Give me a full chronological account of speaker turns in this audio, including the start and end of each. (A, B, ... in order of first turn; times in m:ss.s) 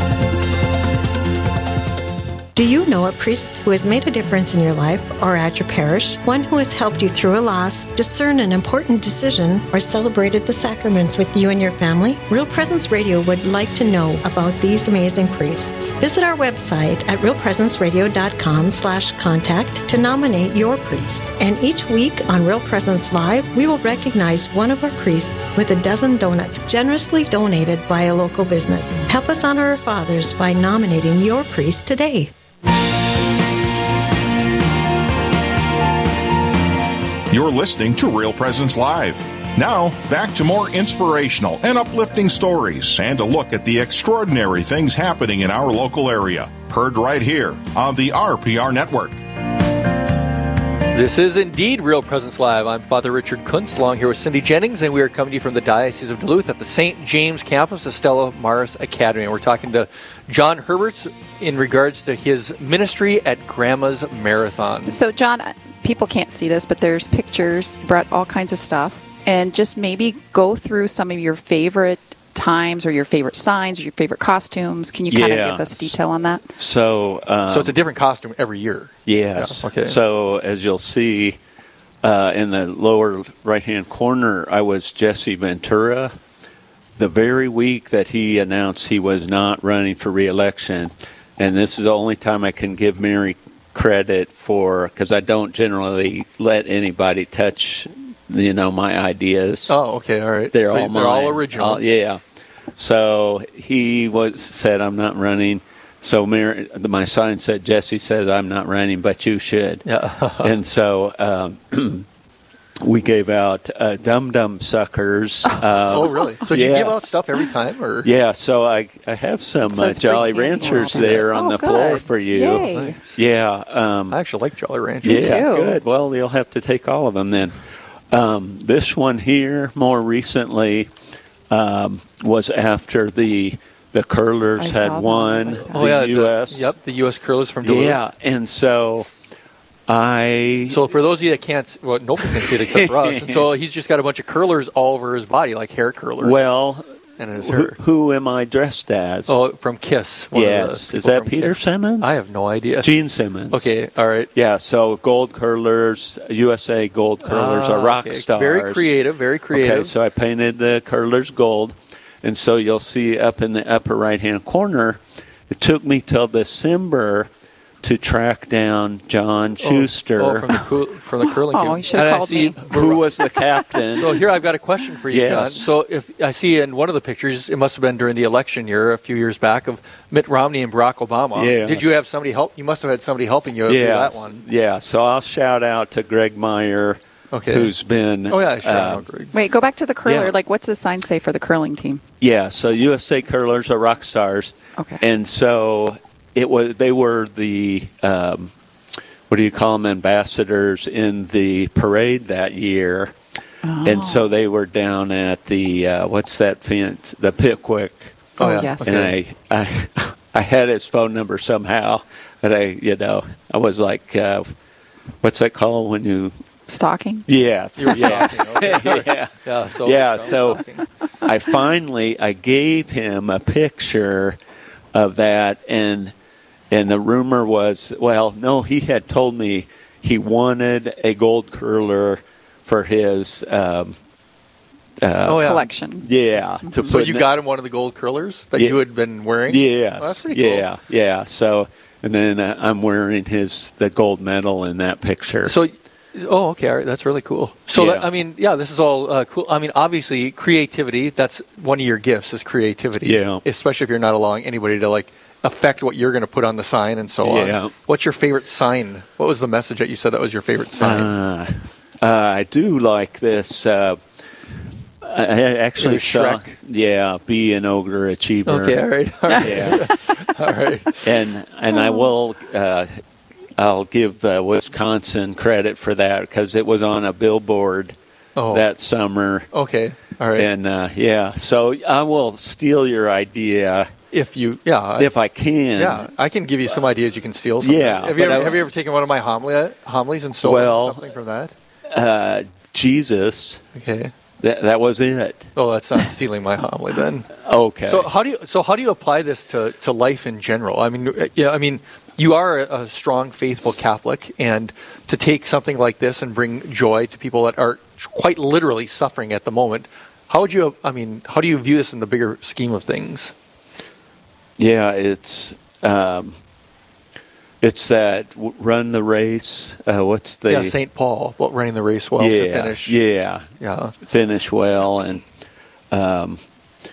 0:02.5-0:32.3 A
0:37.3-0:49.2 B
0:50.9-1:05.0 C
1:04.9-1:16.5 D
1:15.1-1:15.9 E
1:16.6-1:17.8 E
1:17.5-1:20.0 C
1:19.0-1:21.4 E
1:22.0-1:26.1 E
1:27.0-1:39.8 E
1:39.7-1:41.8 C
1:40.5-1:42.2 E
1:42.8-1:49.8 E
1:49.8-1:50.5 C
1:50.4-1:52.0 E
1:52.8-1:57.1 E
1:55.8-1:58.1 C
1:58.0-2:04.2 E
1:59.6-2:03.0 D
2:02.7-2:03.2 C
2:04.1-2:05.4 C
2:05.0-2:07.6 E
2:05.0-2:05.8 D
2:08.1-2:10.9 E
2:11.5-2:16.7 E
2:14.6-2:15.9 D
2:15.7-2:18.0 C
2:17.6-2:19.1 E
2:19.9-2:20.9 E
2:20.7-2:26.4 C
2:22.3-2:23.5 E
2:26.2-2:26.8 E
2:27.2-2:27.8 C
2:27.4-2:29.4 E
2:29.3-2:32.9 C
2:30.3-2:32.2 E
2:32.8-2:33.7 E
2:33.5-2:34.3 C
2:34.3-2:38.9 E
2:37.2-2:39.9 C
2:39.5-2:47.3 E
2:47.8-2:50.6 E
2:49.6-2:53.0 C
2:51.5-2:52.6 D
2:52.6-2:54.2 E
2:53.9-3:04.4 C
2:55.1-2:55.7 E
3:01.3-3:02.0 E
3:03.6-3:09.0 E
3:07.3-3:07.7 C
3:08.3-3:09.3 C
3:09.3-3:12.0 D
3:10.0-3:10.3 E
3:12.2-3:18.5 E
3:19.3-3:23.1 E
3:23.6-3:24.2 D
3:23.8-3:28.2 E
3:28.4-3:29.0 D
3:28.4-3:29.1 C
3:28.8-3:34.5 E
3:35.2-3:36.3 E
3:36.7-3:37.3 D
3:37.3-3:40.6 E
3:37.8-3:40.8 C
3:41.2-3:44.4 E
3:44.9-3:46.1 E
3:46.7-3:54.0 E
3:55.0-3:57.3 E
3:55.2-3:55.7 C
3:55.3-3:56.1 D
3:56.8-4:00.7 C
3:58.5-3:58.8 E
3:59.5-4:05.6 E
4:05.4-4:21.1 C
4:07.7-4:08.1 E
4:13.0-4:13.4 E
4:17.2-4:17.7 E
4:20.8-4:24.0 E
4:25.0-4:29.9 E
4:25.8-4:26.5 C
4:28.4-4:31.0 C
4:31.0-4:33.0 E
4:33.6-4:38.0 E
4:38.4-4:38.6 C
4:38.5-4:39.5 E
4:39.5-4:40.5 C
4:40.3-4:43.9 E
4:44.1-4:45.1 C
4:45.0-4:46.1 E
4:45.8-4:51.5 C
4:47.6-4:48.7 E
4:50.4-4:51.0 E
4:51.9-4:53.6 E
4:53.7-4:54.1 C
4:54.4-4:55.5 E
4:55.6-4:57.3 C
4:57.3-4:58.1 E
4:57.8-5:13.3 C
5:14.6-5:16.4 E
5:17.6-5:20.8 E
5:20.5-5:23.0 C
5:22.2-5:23.4 E
5:23.6-5:23.9 C
5:24.0-5:25.2 E
5:25.9-5:26.4 E